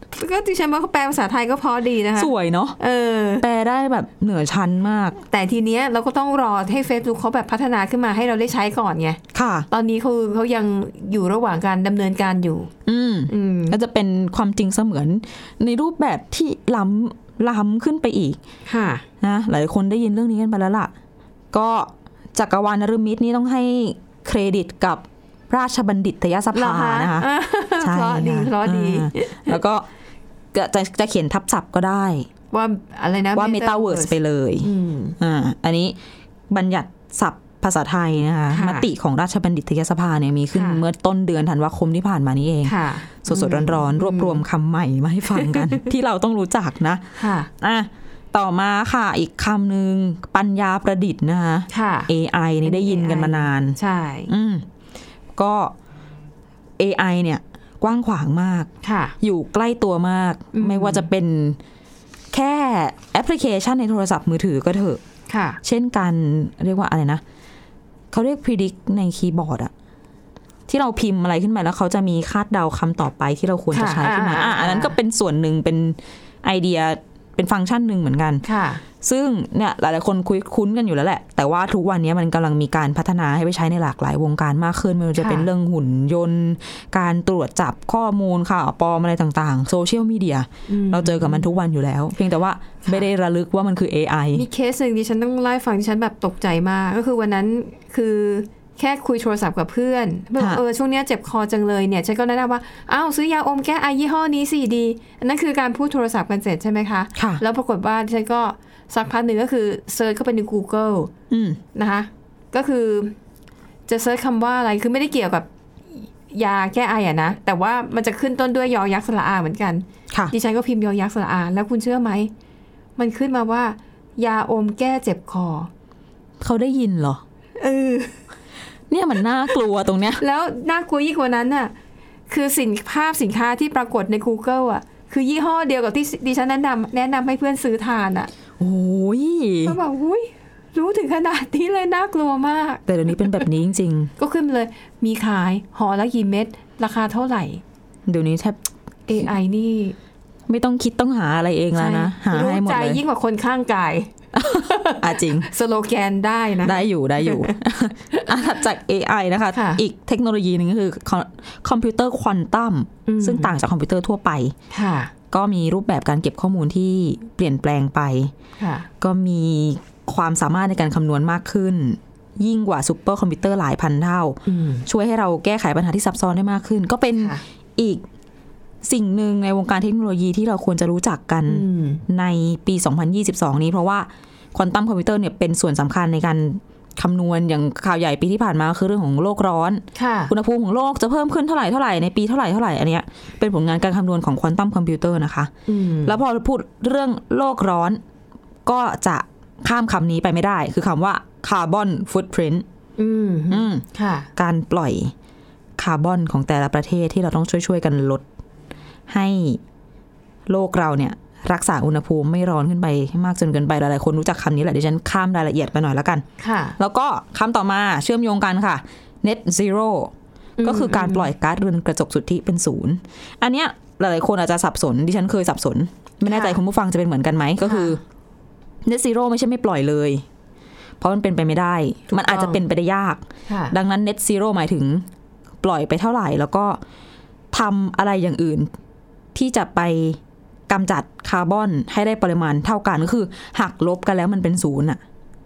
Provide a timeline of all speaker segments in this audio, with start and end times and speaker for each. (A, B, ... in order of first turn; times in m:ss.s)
0:00.1-0:03.4 A
0:02.2-0:02.8 B
0:03.4-0:05.2 B
0:05.2-0:09.2 A
0:09.3-0:09.7 B
0:09.7-0:12.7 A
0:12.8-0:18.4 B
0:13.3-0:13.8 A
0:18.6-0:19.0 A
0:19.2-0:20.9 B
0:21.5-0:29.9 B
0:26.5-0:29.6 A
0:30.5-0:32.3 B
0:32.5-0:35.2 A
0:33.3-0:36.0 B
0:36.5-0:54.6 B
0:38.5-0:38.9 A
0:40.5-0:40.8 A
0:42.6-0:44.4 A
0:45.3-0:45.9 A
0:47.2-0:47.5 A
0:51.7-0:52.1 A
0:52.6-0:54.3 A
0:55.3-0:55.7 B
0:56.8-0:58.7 B
0:58.8-0:59.1 A
0:59.2-1:01.6 B
1:00.5-1:01.1 A
1:02.3-1:05.0 B
1:05.3-1:05.6 A
1:05.6-1:07.2 B
1:08.1-1:09.7 B
1:10.7-1:18.4 B
1:13.7-1:14.9 A
1:18.4-1:18.8 A
1:19.0-1:34.5 B
1:25.2-1:25.5 A
1:30.7-1:31.5 A
1:34.3-1:51.1 A
1:47.2-1:47.4 B
1:51.3-1:51.6 B
1:51.7-1:53.1 A
1:53.9-2:02.3 A
2:03.0-2:05.7 A
2:06.4-2:07.2 B
2:07.6-2:08.2 A
2:08.9-2:10.2 B
2:10.2-2:11.7 A
2:12.3-2:18.3 A
2:18.6-2:19.8 B
2:19.6-2:23.4 A
2:22.9-2:24.1 B
2:24.2-2:27.6 A
2:28.1-2:28.6 B
2:29.1-2:30.0 A
2:30.5-2:33.0 B
2:31.7-2:37.6 A
2:34.3-2:35.5 B
2:36.6-2:44.5 B
2:39.5-2:39.8 A
2:43.0-2:43.5 A
2:44.7-2:45.1 A
2:45.3-2:48.3 B
2:48.6-2:48.9 A
2:49.0-2:58.0 B
2:54.4-2:54.8 A
2:57.2-2:57.4 A
2:58.8-3:15.5 B
3:01.5-3:02.0 A
3:09.9-3:10.3 A
3:15.7-3:16.2 A
3:16.0-3:18.0 B
3:18.6-3:22.6 B
3:23.0-3:24.3 A
3:23.5-3:23.8 B
3:24.4-3:25.1 B
3:25.8-3:28.2 B
3:29.1-3:29.6 B
3:30.5-3:36.2 B
3:36.4-3:36.8 A
3:36.8-3:48.0 B
3:40.6-3:41.3 A
3:46.2-3:46.6 A
3:47.6-3:48.0 A
3:48.8-3:50.2 B
3:51.0-3:55.0 B
3:52.1-3:52.6 A
3:53.5-3:53.7 A
3:55.6-3:56.8 B
3:57.5-3:58.7 B
3:59.3-4:05.0 B